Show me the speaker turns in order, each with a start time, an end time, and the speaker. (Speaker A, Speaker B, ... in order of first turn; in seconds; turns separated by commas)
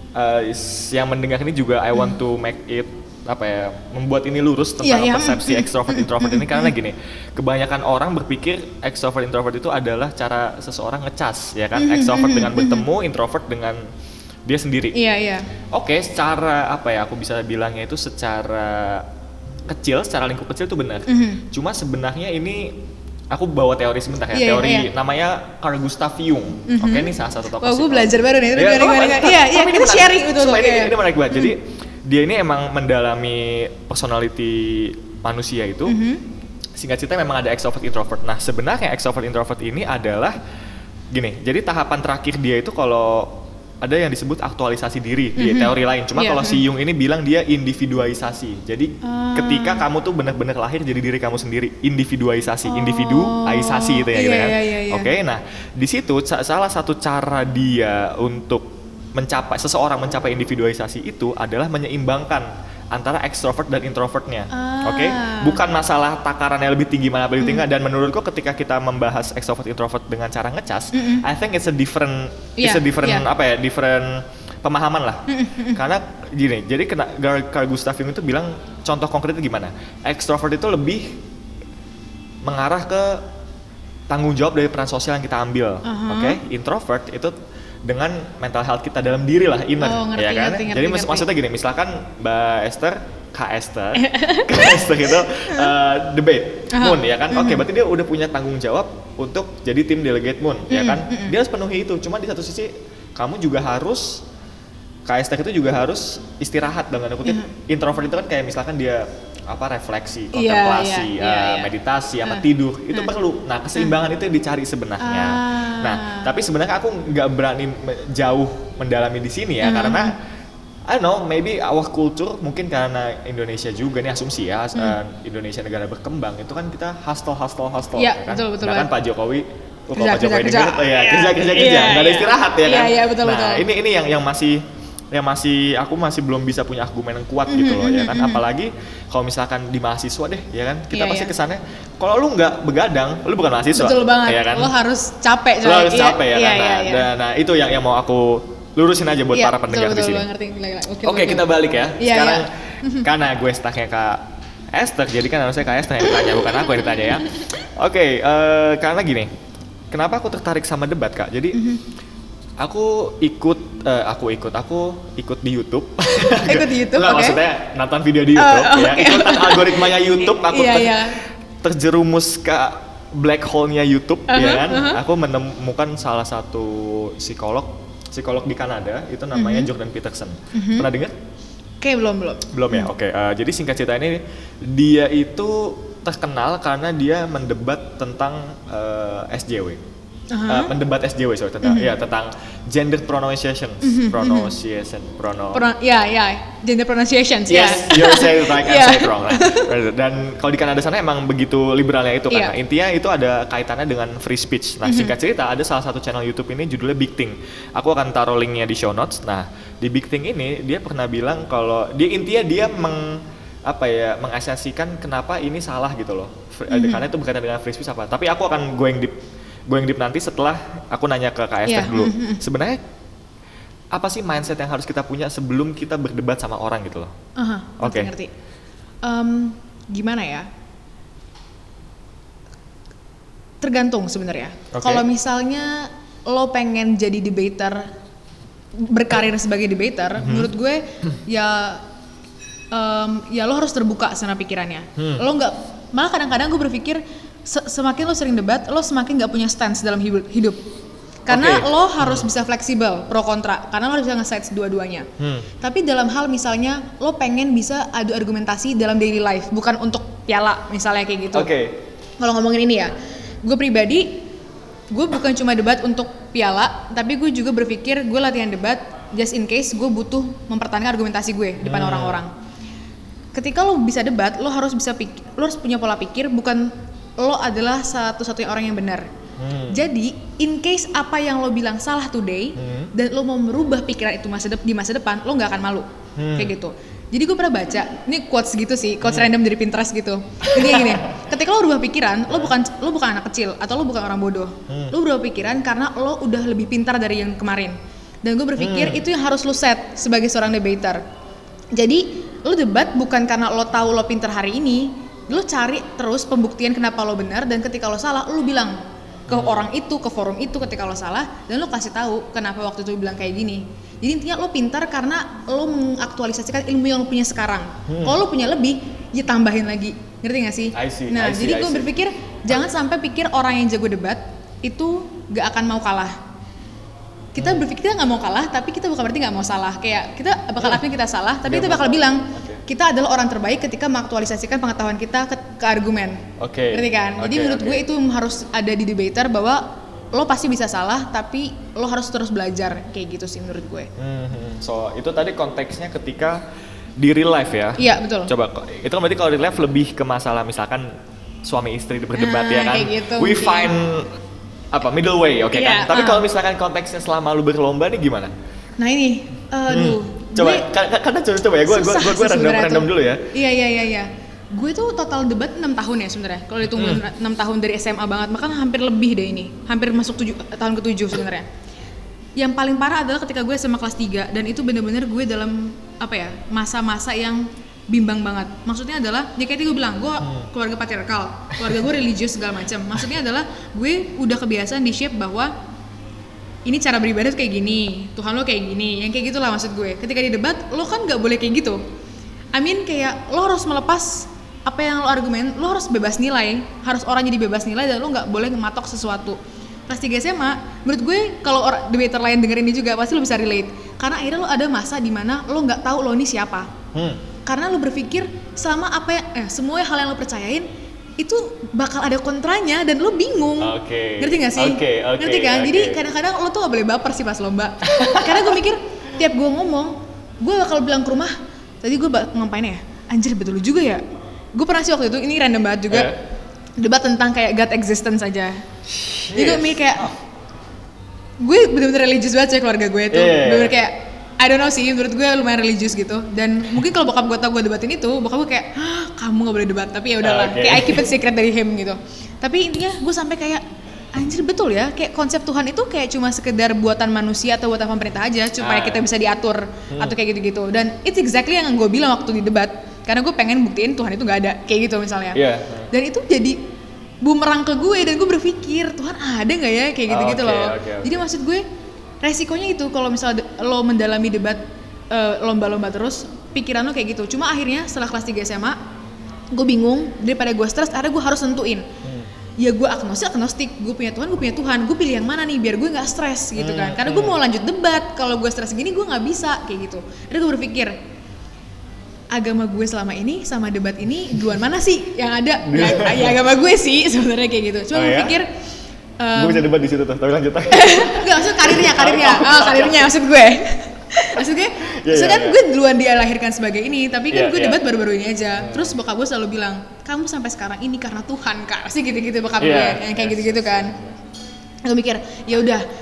Speaker A: 0.1-13.8, Speaker B: 4.8-6.7, Speaker B: 11.7-12.8, Speaker A: 14.4-15.0, Speaker B: 14.9-15.5, Speaker A: 15.7-19.1, Speaker A: 19.7-22.8, Speaker B: 21.1-21.4, Speaker A: 23.3-36.0, Speaker B: 24.3-24.9, Speaker B: 26.7-31.5, Speaker B: 35.9-36.2, Speaker A: 36.8-40.4, Speaker A: 41.1-81.2, Speaker B: 45.4-46.6, Speaker B: 49.0-49.8, Speaker B: 52.6-55.1, Speaker B: 64.5-65.6, Speaker B: 67.4-67.7, Speaker B: 70.9-71.2, Speaker B: 72.6-73.2, Speaker B: 75.3-75.8, Speaker A: 82.4-83.2, Speaker A: 84.1-104.2, Speaker B: 85.8-86.4, Speaker B: 89.8-91.3, Speaker B: 93.9-95.7, Speaker B: 96.7-97.6, Speaker B: 100.7-101.3, Speaker A: 105.0-120.2, Speaker B: 107.2-107.5, Speaker B: 110.3-111.7, Speaker B: 112.2-113.1, Speaker B: 115.0-116.3, Speaker B: 119.6-120.1, Speaker A: 120.9-134.6, Speaker B: 128.0-128.9, Speaker B: 129.9-133.7, Speaker A: 135.1-144.7, Speaker B: 137.5-138.4, Speaker B: 140.9-141.3, Speaker B: 143.7-147.1, Speaker A: 145.6-150.3, Speaker B: 149.3-153.1, Speaker A: 151.0-159.3, Speaker B: 156.1-157.4, Speaker A: 159.9-161.6, Speaker B: 161.5-161.8, Speaker A: 162.6-181.1, Speaker B: 166.3-167.4, Speaker B: 168.3-171.2, Speaker B: 174.3-175.0, Speaker B: 179.3-179.7, Speaker B: 180.5-180.9, Speaker B: 181.8-182.9, Speaker A: 182.5-189.8, Speaker B: 190.3-190.7, Speaker A: 190.5-195.6, Speaker B: 191.6-191.9, Speaker B: 193.8-194.5, Speaker B: 195.5-199.7, Speaker A: 197.5-219.1, Speaker B: 202.3-202.5, Speaker B: 204.8-205.1, Speaker B: 216.7-217.1, Speaker A: 219.7-222.8, Speaker B: 221.7-222.4, Speaker A: 223.9-227.1, Speaker B: 227.4-228.3, Speaker A: 227.8-228.1, Speaker B: 229.0-230.5, Speaker B: 233.6-237.9, Speaker A: 234.7-235.0, Speaker B: 238.7-241.8, Speaker A: 240.2-240.5, Speaker B: 242.7-250.6, Speaker A: 245.0-245.2, Speaker B: 251.3-255.1, Speaker A: 251.3-252.3, Speaker A: 255.2-255.5, Speaker B: 255.6-261.5, Speaker A: 261.3-261.8, Speaker B: 262.2-264.2, Speaker B: 264.9-272.3, Speaker A: 271.6-272.2, Speaker B: 273.3-279.1, Speaker A: 279.4-279.8, Speaker B: 279.7-301.0, Speaker A: 282.6-282.9, Speaker A: 286.1-286.5, Speaker A: 290.4-291.2, Speaker A: 292.3-292.5, Speaker A: 294.7-294.9, Speaker A: 298.6-299.0, Speaker B: 301.7-326.1, Speaker A: 309.3-309.7, Speaker A: 317.9-318.2, Speaker A: 320.7-321.9, Speaker B: 327.4-343.9, Speaker A: 327.4-327.6, Speaker A: 331.4-332.6, Speaker A: 336.4-337.8, Speaker A: 344.0-346.4, Speaker A: 347.0-354.1, Speaker B: 347.8-348.3, Speaker B: 352.1-353.7, Speaker A: 354.7-358.3, Speaker B: 355.5-356.2, Speaker B: 358.8-360.7, Speaker A: 359.7-363.3, Speaker B: 361.6-371.5, Speaker A: 366.7-367.0, Speaker B: 372.4-385.5, Speaker B: 386.6-391.8, Speaker B: 392.5-406.7, Speaker A: 406.9-407.2, Speaker B: 407.4-410.7, Speaker B: 411.2-426.1, Speaker A: 413.6-416.0, Speaker A: 417.8-418.6, Speaker A: 425.9-426.2, Speaker B: 426.8-428.6, Speaker A: 428.9-430.1, Speaker B: 429.3-430.1, Speaker B: 431.4-456.6, Speaker A: 433.1-433.8, Speaker A: 440.2-441.1, Speaker A: 448.6-449.0, Speaker A: 449.9-450.2, Speaker A: 455.3-455.9, Speaker B: 457.2-461.6, Speaker A: 460.1-461.1, Speaker B: 462.2-468.8, Speaker B: 469.5-471.9, Speaker B: 472.6-480.9, Speaker A: 476.6-477.4, Speaker B: 482.3-488.5, Speaker A: 485.6-486.4, Speaker A: 487.9-488.4, Speaker B: 489.2-489.7, Speaker A: 489.3-493.1, Speaker B: 490.7-503.9, Speaker A: 494.4-495.6, Speaker A: 497.3-497.8, Speaker A: 498.6-498.9, Speaker A: 502.6-504.2, Speaker B: 504.8-505.8